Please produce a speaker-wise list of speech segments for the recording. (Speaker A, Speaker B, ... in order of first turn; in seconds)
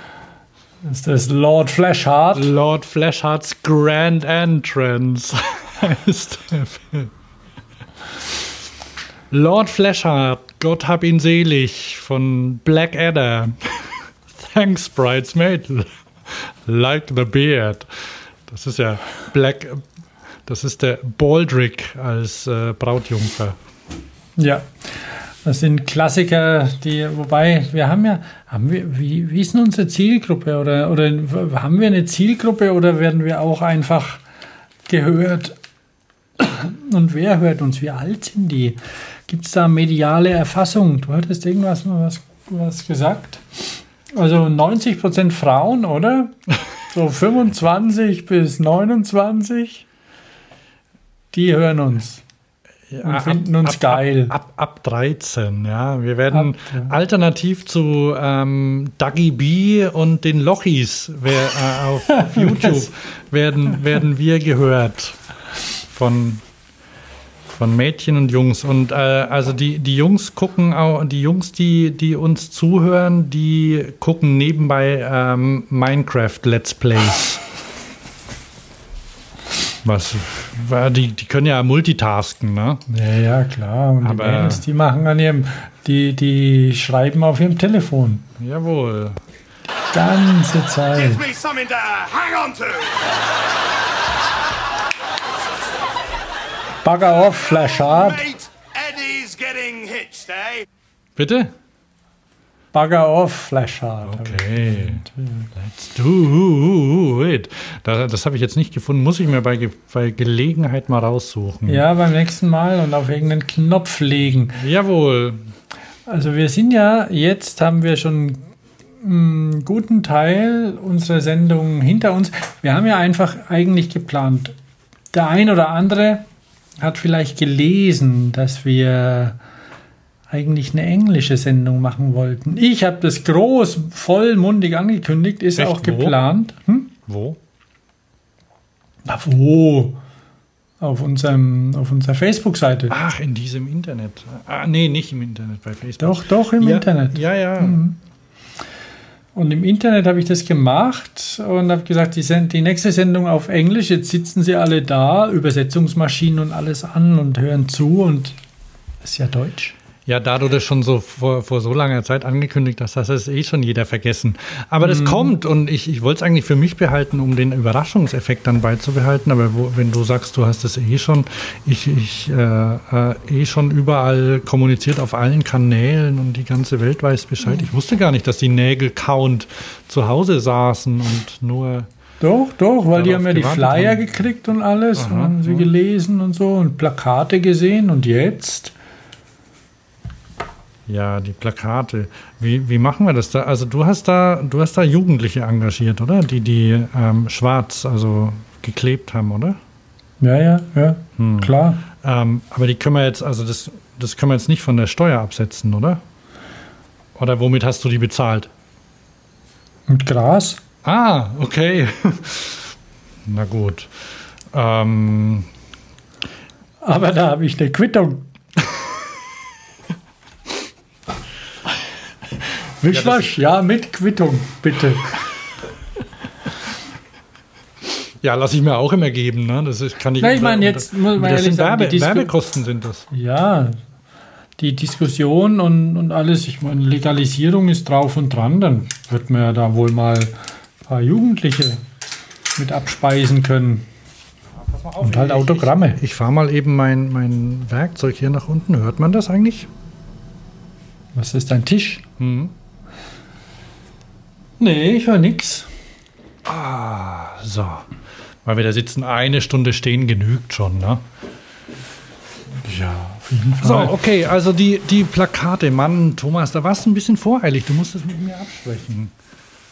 Speaker A: 0.8-2.5, 24.4-34.2, 34.9-35.6, 36.4-49.8, 51.3-52.2, 53.0-54.3, 56.3-56.9, 62.2-62.9, 82.9-88.3, 89.9-91.2, 96.8-98.3, 102.7-105.5, 111.7-114.6, 116.1-118.5, 119.0-124.5, 125.1-126.3, 126.8-129.4, 130.3-136.9, 139.0-140.0, 140.8-142.9, 146.0-148.0, 149.3-158.4, 159.0-159.7, 164.8-165.3, 182.2-188.7, 200.2-201.8, 209.9-210.6, 216.8-218.3, 222.8-225.1, 230.2-232.3, 233.1-233.8, 234.6-241.8, 242.6-243.9, 245.0-246.0, 251.1-252.0, 254.6-255.7, 262.6-264.0
Speaker B: 2.3-7.1, 9.3-19.8, 20.4-23.6, 52.9-65.2, 65.9-66.4, 67.5-77.4, 79.8-82.8, 84.0-84.6, 88.4-89.2, 101.2-101.5, 104.0-111.8, 114.5-115.4, 135.6-136.2, 137.1-137.4, 142.9-147.8, 160.1-181.9, 182.9-184.2, 185.0-185.7, 190.9-199.6, 201.2-206.0, 207.2-208.5, 210.8-212.7, 213.2-213.9, 214.5-215.5, 222.9-223.3, 228.2-233.1, 244.6-249.7, 252.2-252.5, 256.4-257.9, 258.4-261.0, 263.6-269.1
Speaker C: 91.0-93.0, 97.9-100.7